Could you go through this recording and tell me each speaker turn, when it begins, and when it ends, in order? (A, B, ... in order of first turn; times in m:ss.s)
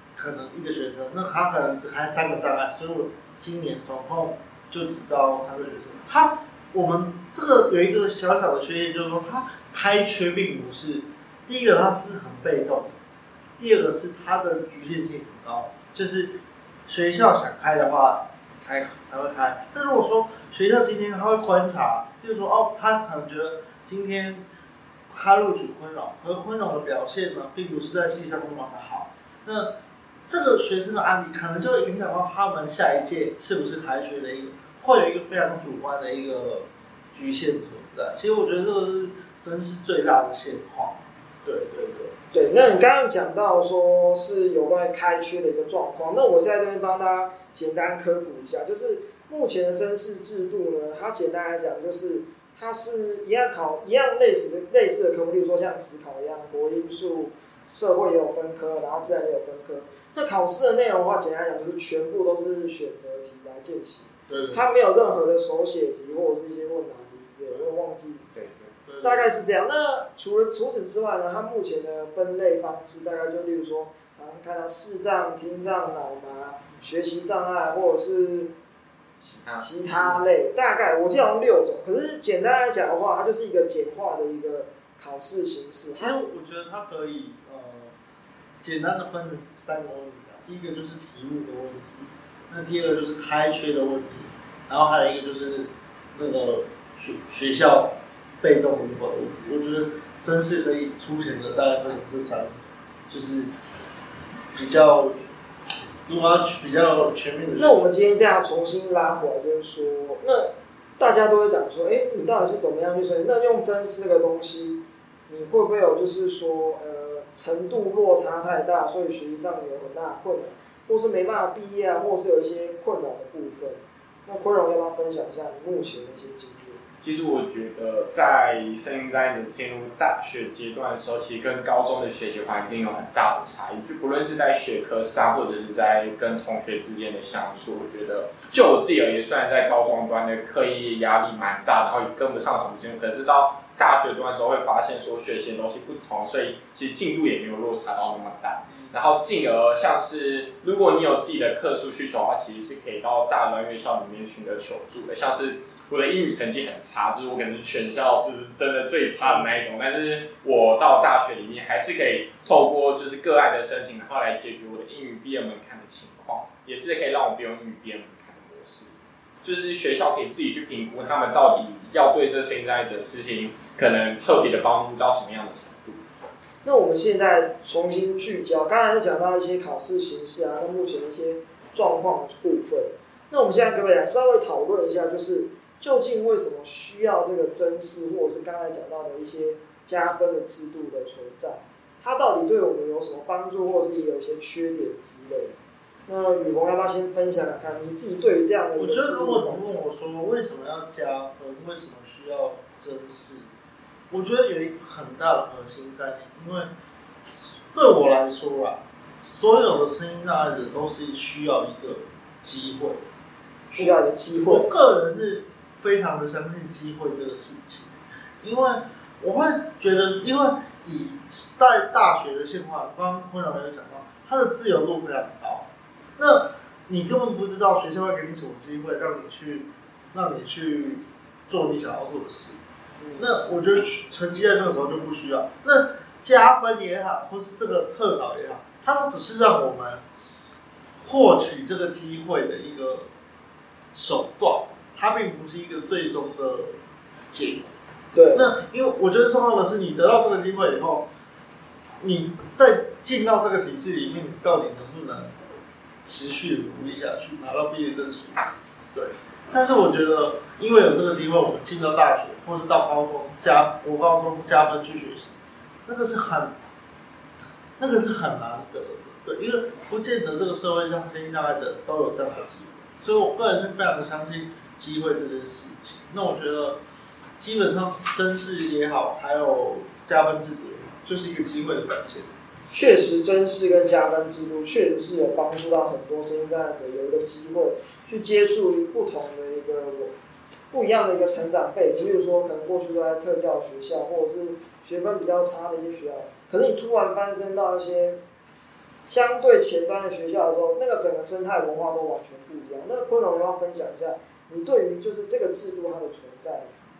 0:00.2-0:13.0 A
0:13.6-0:24.4 A
0:25.1-0:29.7 A
0:30.3-0:42.1 A
0:42.3-1:08.2 B
1:04.3-1:04.6 A
1:08.8-1:09.3 A
1:09.0-1:18.5 B
1:19.2-1:20.2 C
1:19.6-1:26.2 B
1:26.0-1:27.9 A
1:28.6-1:43.5 A
1:44.5-1:45.2 A
1:46.0-1:47.9 A
1:47.6-2:06.8 B
2:07.0-2:48.9 C
2:49.4-2:56.0 C
2:56.6-3:19.8 B
3:18.7-3:23.5 A
3:24.1-3:26.7 A
3:27.3-3:33.0 A
3:33.7-3:34.7 B
3:33.7-3:52.6 A
3:53.0-3:53.3 B
3:53.2-4:00.0 A
4:01.0-4:03.1 A
4:03.9-4:06.8 A
4:07.3-4:07.7 A
4:08.1-4:08.5 B
4:08.3-4:11.1 A
4:12.0-4:15.3 A
4:16.0-4:26.6 A
4:27.8-4:36.8 A
4:37.4-4:42.3 A
4:42.7-4:50.1 B
4:50.7-4:58.2 B
4:59.1-5:06.8 B